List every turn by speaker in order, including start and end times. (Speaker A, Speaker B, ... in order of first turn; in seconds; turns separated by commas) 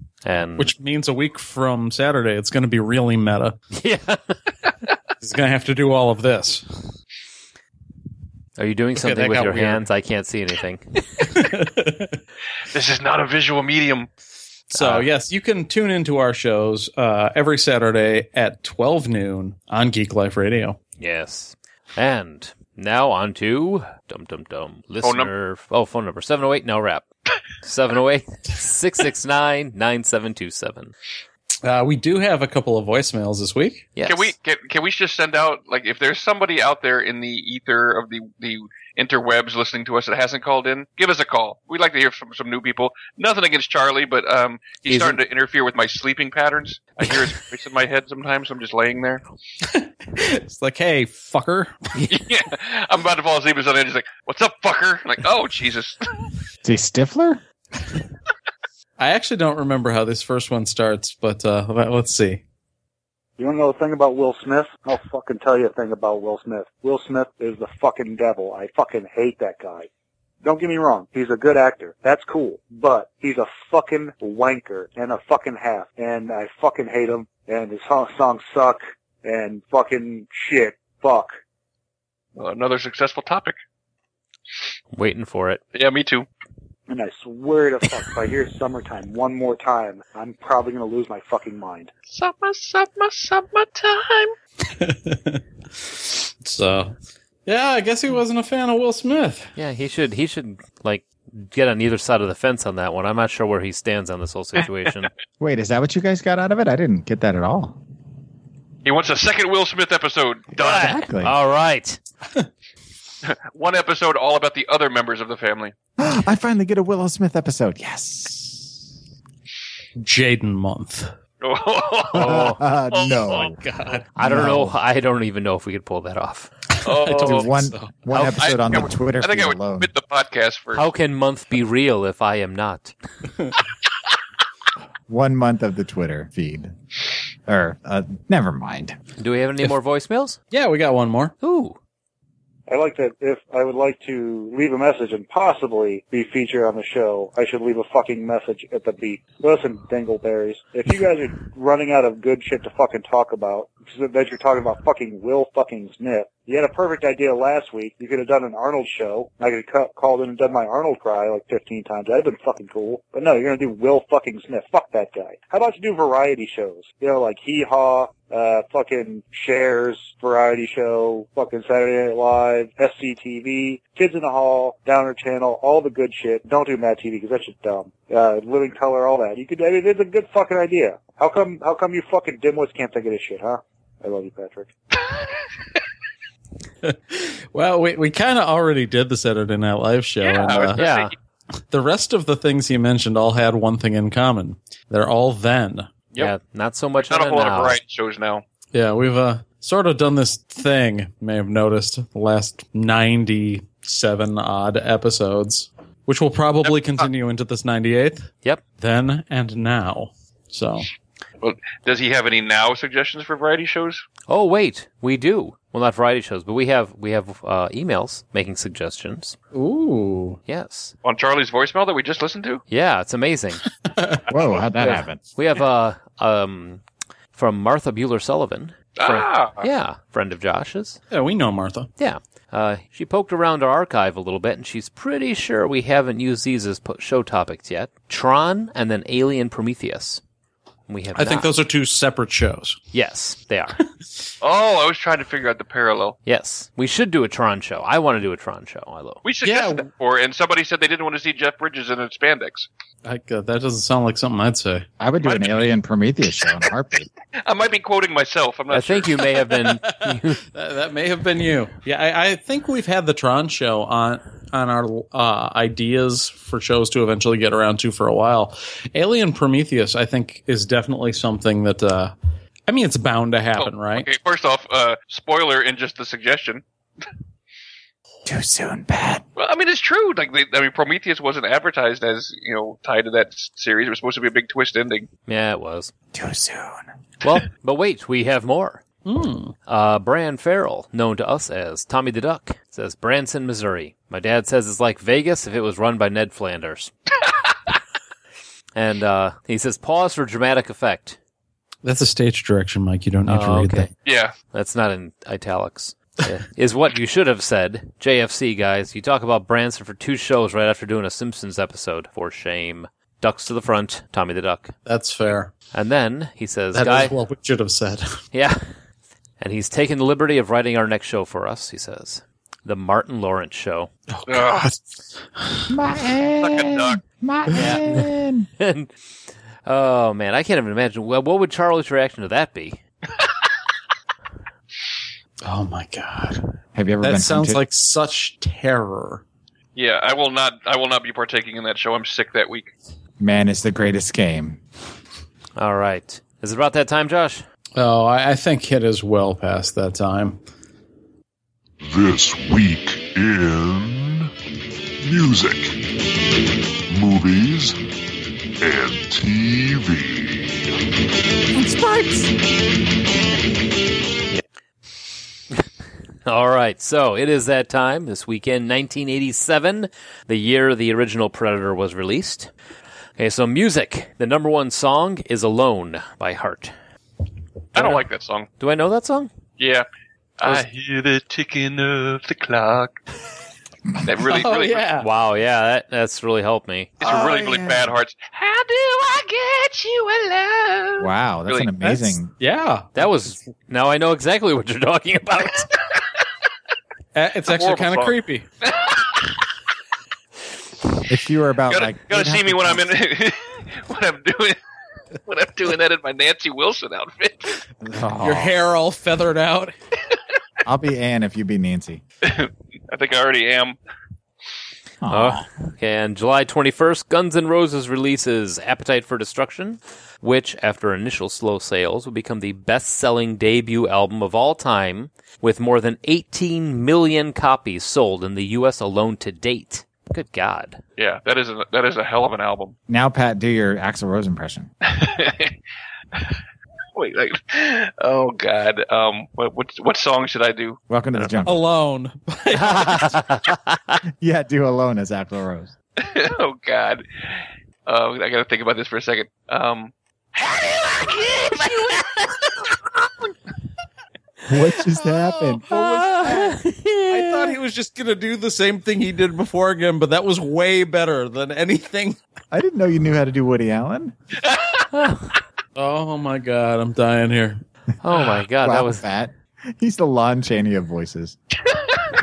Speaker A: 0.2-0.7, Speaker B: 0.6-3.6, Speaker A: 3.7-4.4, Speaker B: 5.2-6.8, Speaker A: 8.6-11.4, Speaker B: 8.9-9.8, Speaker B: 11.2-12.2, Speaker C: 12.7-14.1, Speaker B: 14.7-20.8, Speaker A: 14.7-15.1, Speaker A: 21.0-27.1, Speaker C: 25.0-25.3, Speaker A: 27.6-30.9, Speaker B: 31.6-33.9, Speaker A: 34.0-34.3, Speaker C: 34.0-49.2, Speaker A: 44.9-45.2, Speaker B: 49.6-51.8, Speaker C: 52.1-56.0, Speaker D: 56.6-57.4, Speaker B: 59.0-62.4, Speaker E: 63.4-69.9, Speaker E: 70.4-81.4, Speaker C: 82.4-83.5, Speaker A: 84.9-85.6, Speaker C: 85.7-86.3, Speaker E: 86.9-91.9, Speaker C: 92.1-94.3, Speaker B: 94.7-97.0, Speaker B: 97.5-99.5, Speaker A: 99.6-105.1, Speaker D: 105.4-107.8, Speaker C: 108.8-111.0, Speaker D: 110.6-111.3, Speaker A: 110.6-112.0, Speaker C: 113.2-115.7, Speaker D: 116.0-118.8, Speaker B: 120.0-121.1, Speaker C: 121.4-123.5, Speaker D: 122.1-123.6, Speaker A: 122.2-122.6, Speaker B: 123.5-124.3, Speaker A: 124.2-126.5, Speaker D: 124.2-124.8, Speaker C: 126.8-127.5, Speaker B: 126.8-127.9, Speaker D: 127.2-129.9, Speaker A: 128.1-128.4, Speaker C: 128.3-130.8, Speaker A: 130.8-132.9, Speaker D: 135.1-136.8, Speaker D: 137.5-139.0, Speaker A: 139.2-140.4, Speaker B: 140.5-141.3, Speaker A: 141.4-141.8, Speaker E: 142.7-184.7, Speaker B: 186.8-190.8, Speaker C: 190.2-191.1, Speaker A: 190.8-191.1, Speaker B: 191.7-195.9, Speaker A: 196.2-197.8, Speaker C: 197.1-198.4, Speaker B: 198.7-210.9, Speaker C: 206.6-207.1, Speaker C: 211.4-214.1, Speaker A: 214.3-219.4, Speaker B: 219.5-220.4, Speaker A: 220.5-220.9, Speaker C: 221.0-222.6, Speaker A: 222.7-223.7, Speaker B: 223.9-224.2, Speaker D: 224.3-225.2, Speaker A: 224.8-226.8, Speaker A: 227.3-231.0, Speaker C: 229.0-229.7, Speaker B: 231.1-231.9, Speaker A: 232.0-240.2, Speaker A: 240.9-241.5, Speaker B: 241.2-242.8, Speaker A: 242.9-243.8, Speaker C: 244.4-246.2, Speaker A: 246.2-249.2, Speaker C: 249.2-252.7, Speaker B: 249.4-249.9, Speaker B: 253.1-254.9, Speaker D: 255.0-257.1, Speaker C: 255.2-255.6, Speaker C: 257.5-259.2, Speaker A: 258.7-260.4, Speaker B: 259.8-272.1, Speaker B: 272.7-274.1, Speaker C: 273.6-276.6, Speaker D: 278.3-279.2, Speaker C: 279.4-285.1, Speaker A: 285.3-285.9, Speaker D: 286.1-286.9, Speaker A: 287.2-288.8, Speaker B: 289.1-289.6, Speaker A: 289.7-296.9, Speaker A: 298.8-301.2, Speaker B: 301.8-303.9, Speaker A: 303.3-303.9, Speaker C: 304.1-304.3, Speaker A: 304.5-314.8, Speaker B: 314.9-315.5, Speaker A: 315.7-317.2, Speaker B: 316.7-318.2, Speaker A: 318.3-318.6, Speaker A: 319.4-323.9, Speaker B: 324.1-324.8, Speaker C: 324.3-324.6, Speaker B: 325.4-325.7, Speaker D: 325.7-328.5, Speaker C: 326.4-327.0, Speaker A: 327.5-328.1, Speaker A: 328.6-328.9, Speaker A: 329.7-332.8, Speaker B: 335.4-336.4, Speaker D: 336.8-337.6, Speaker B: 337.0-339.2, Speaker C: 339.8-342.7, Speaker D: 343.2-344.6, Speaker A: 345.6-347.4, Speaker B: 347.8-350.4, Speaker F: 351.8-354.3, Speaker F: 355.0-355.9, Speaker F: 356.9-357.8, Speaker F: 358.6-360.8, Speaker D: 361.6-362.3, Speaker A: 366.3-372.5, Speaker A: 373.2-376.7, Speaker A: 377.8-378.0, Speaker C: 377.8-378.5, Speaker A: 378.6-379.3, Speaker C: 379.6-379.9, Speaker C: 380.4-383.0, Speaker C: 384.1-384.9, Speaker B: 384.2-385.1, Speaker A: 385.0-387.0, Speaker C: 387.0-391.7, Speaker D: 387.0-387.9, Speaker D: 391.0-392.3, Speaker B: 392.4-393.1, Speaker A: 393.0-395.7, Speaker B: 397.1-398.5, Speaker C: 397.5-399.3, Speaker D: 401.1-402.9, Speaker C: 401.7-404.6, Speaker C: 405.3-407.6, Speaker D: 407.8-408.6, Speaker B: 408.2-409.8, Speaker D: 410.6-412.0, Speaker C: 412.2-413.8, Speaker D: 415.0-415.4, Speaker A: 415.1-430.8, Speaker C: 431.0-432.8, Speaker D: 432.9-434.7, Speaker C: 434.8-435.6, Speaker C: 436.9-441.4, Speaker D: 440.9-441.6, Speaker B: 441.4-443.3, Speaker A: 442.5-444.0, Speaker D: 444.2-445.7, Speaker C: 446.0-447.1, Speaker C: 447.9-451.6, Speaker D: 454.5-456.6, Speaker A: 455.7-457.6, Speaker B: 457.1-462.2, Speaker D: 462.5-464.1, Speaker C: 464.5-464.8, Speaker A: 464.9-465.3, Speaker B: 465.8-467.6, Speaker A: 468.0-469.0, Speaker D: 468.6-471.4